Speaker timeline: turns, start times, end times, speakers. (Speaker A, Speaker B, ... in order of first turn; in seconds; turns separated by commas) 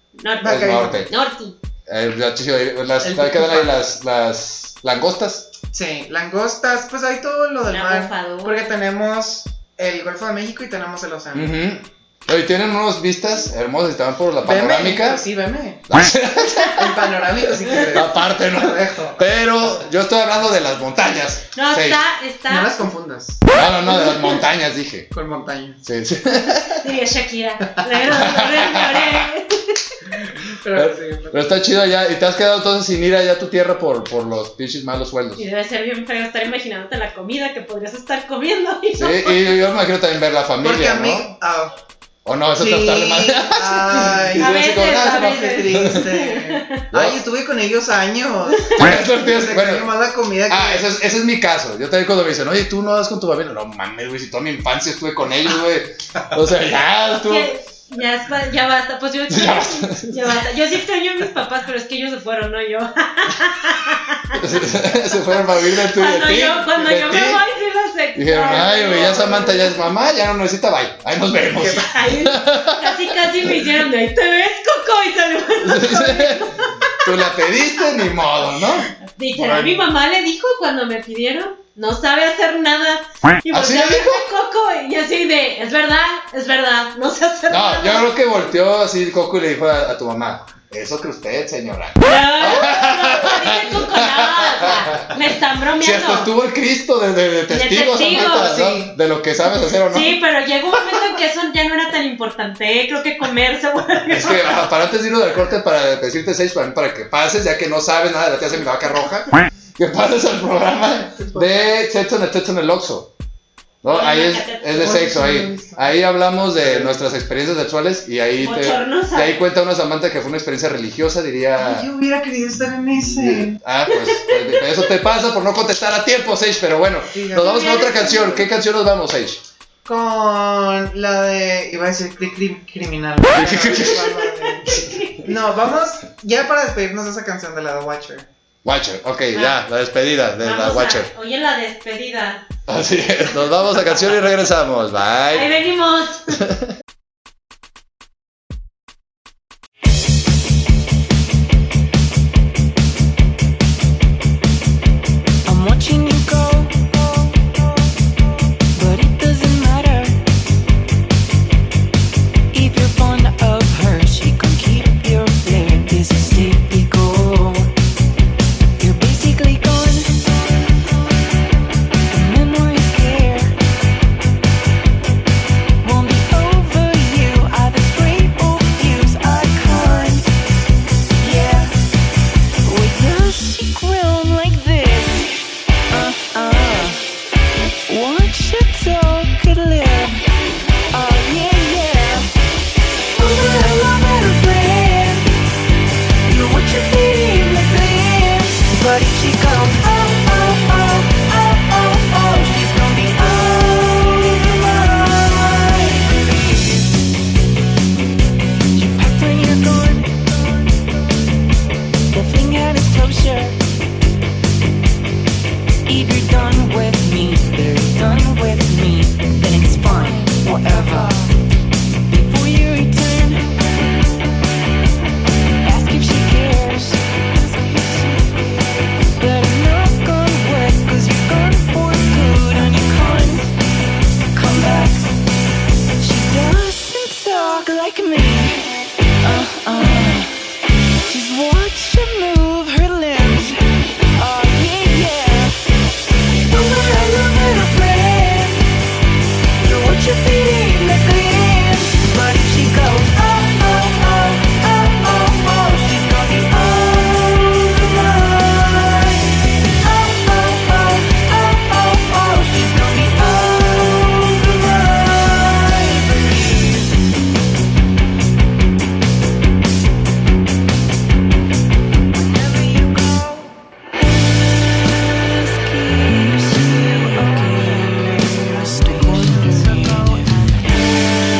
Speaker A: 0.2-1.6, Speaker B: 0.4-1.1, Speaker C: 0.4-1.1, Speaker C: 1.9-5.5, Speaker B: 3.0-3.7, Speaker B: 5.7-11.6, Speaker A: 7.7-8.7, Speaker C: 11.3-15.2, Speaker B: 14.4-15.8, Speaker C: 15.9-22.0, Speaker B: 16.7-19.2, Speaker A: 21.5-22.9, Speaker B: 22.5-23.4, Speaker C: 23.5-25.1, Speaker A: 24.0-24.3, Speaker B: 25.1-25.8, Speaker C: 25.8-26.8, Speaker A: 26.8-29.8, Speaker C: 28.0-29.2, Speaker B: 30.6-31.6, Speaker C: 30.7-35.4, Speaker A: 35.4-39.6, Speaker C: 39.0-41.3, Speaker B: 40.6-41.7, Speaker C: 42.2-46.0, Speaker B: 42.6-50.9, Speaker A: 44.4-46.8, Speaker C: 46.9-47.2, Speaker C: 48.8-49.9, Speaker C: 50.5-57.5, Speaker A: 57.2-64.4, Speaker C: 59.3-60.2, Speaker C: 64.3-67.4, Speaker A: 65.6-69.8, Speaker C: 68.1-73.5, Speaker B: 71.5-71.9, Speaker A: 71.9-77.0, Speaker C: 75.6-79.8, Speaker A: 79.0-88.1, Speaker C: 83.5-84.2, Speaker C: 87.5-95.1, Speaker A: 92.0-96.3, Speaker C: 95.8-100.2, Speaker A: 97.5-98.7, Speaker B: 98.3-98.9, Speaker A: 99.9-104.6, Speaker C: 104.1-113.1, Speaker B: 111.1-111.7, Speaker C: 113.8-121.9, Speaker A: 113.9-115.2, Speaker B: 114.8-116.0, Speaker B: 116.5-117.0, Speaker A: 118.4-119.4, Speaker B: 121.6-123.6, Speaker C: 123.1-129.4, Speaker A: 123.9-124.3, Speaker B: 127.1-128.3, Speaker A: 127.4-128.4, Speaker B: 129.8-134.7, Speaker C: 133.3-134.9, Speaker A: 134.6-135.3, Speaker B: 135.2-138.3, Speaker C: 138.6-141.1, Speaker A: 139.3-139.6, Speaker A: 140.4-142.4, Speaker C: 142.7-145.5, Speaker A: 145.3-146.4, Speaker D: 155.4-157.0, Speaker D: 158.7-160.2, Speaker D: 162.5-167.7, Speaker D: 168.8-170.2, Speaker D: 172.1-173.5, Speaker D: 175.8-180.3, Speaker D: 181.2-181.8, Speaker D: 182.6-187.0, Speaker D: 187.9-190.3, Speaker D: 190.9-192.3, Speaker D: 193.1-195.3, Speaker D: 196.2-206.8, Speaker D: 208.7-210.6, Speaker D: 212.1-213.6, Speaker D: 215.8-221.3, Speaker D: 222.1-223.4, Speaker D: 225.6-228.3, Speaker D: 229.2-233.5, Speaker D: 234.3-235.2, Speaker D: 236.0-240.3, Speaker D: 241.1-243.6, Speaker D: 244.2-245.5, Speaker D: 246.5-248.6, Speaker D: 249.6-266.8, Speaker D: 272.3-273.5, Speaker D: 275.0-281.0